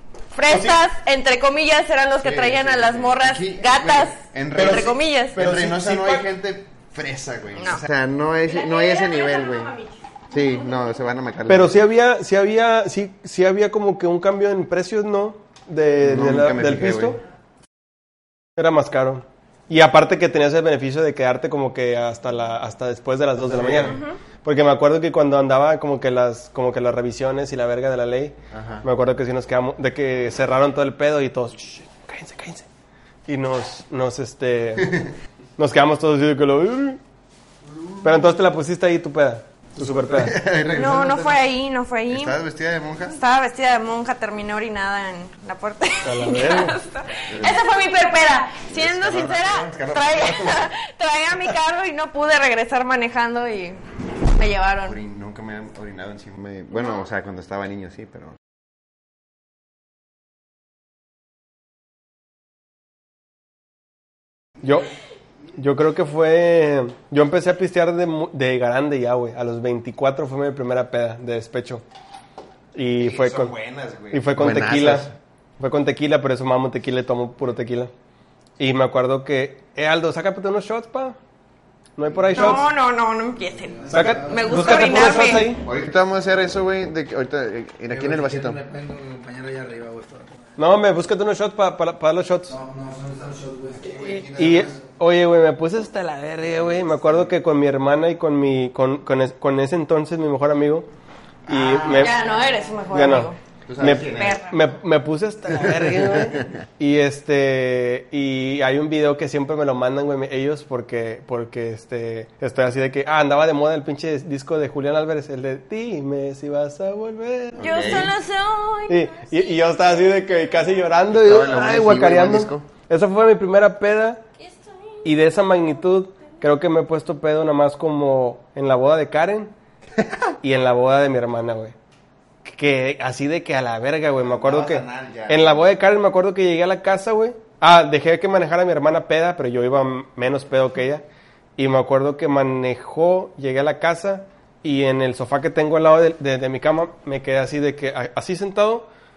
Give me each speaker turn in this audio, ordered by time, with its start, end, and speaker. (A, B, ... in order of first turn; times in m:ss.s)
0:00.3-0:05.4 A
0:00.5-0:00.8 B
0:02.2-0:09.7 C
0:04.5-0:06.2 B
0:07.6-0:07.8 A
0:08.4-0:10.8 A
0:10.3-0:11.7 C
0:11.5-0:17.2 B
0:16.0-0:17.2 C
0:18.6-0:32.7 B
0:23.4-0:24.0 C
0:23.8-0:24.2 A
0:28.5-0:28.8 C
0:33.3-0:35.0 B
0:34.8-0:35.1 C
0:35.6-0:37.0 B
0:37.7-0:38.1 C
0:38.0-0:40.4 B
0:40.1-0:41.4 C
0:40.7-0:42.4 A
0:42.1-0:43.2 C
0:43.1-0:55.0 A
0:46.0-0:46.8 B
0:47.3-0:47.6 C
0:48.7-0:50.7 C
0:54.8-0:58.4 C
1:04.6-1:04.9 B
1:05.6-1:11.8 B
1:12.7-1:13.5 B
1:13.0-1:15.1 C
1:14.1-1:15.1 B
1:15.6-1:17.9 B
1:18.6-1:21.2 B
1:22.0-1:22.7 B
1:22.3-1:25.5 A
1:23.7-1:24.8 D
1:23.9-1:25.6 B
1:25.2-1:28.6 C
1:27.9-1:30.4 D
1:30.6-1:32.6 B
1:32.5-1:34.8 D
1:34.0-1:40.9 B
1:41.5-1:42.1 C
1:41.5-1:42.1 B
1:41.8-1:43.4 A
1:42.9-1:57.6 B
1:43.6-1:44.4 C
1:44.0-1:44.6 A
1:45.5-1:46.5 C
1:57.6-1:58.1 C
1:57.6-2:00.8 A
1:58.9-2:04.2 B
2:01.1-2:02.7 C
2:04.4-2:05.1 A
2:05.0-2:09.5 B
2:10.4-2:11.7 B
2:12.4-2:21.0 B
2:14.2-2:15.6 C
2:21.6-2:28.9 B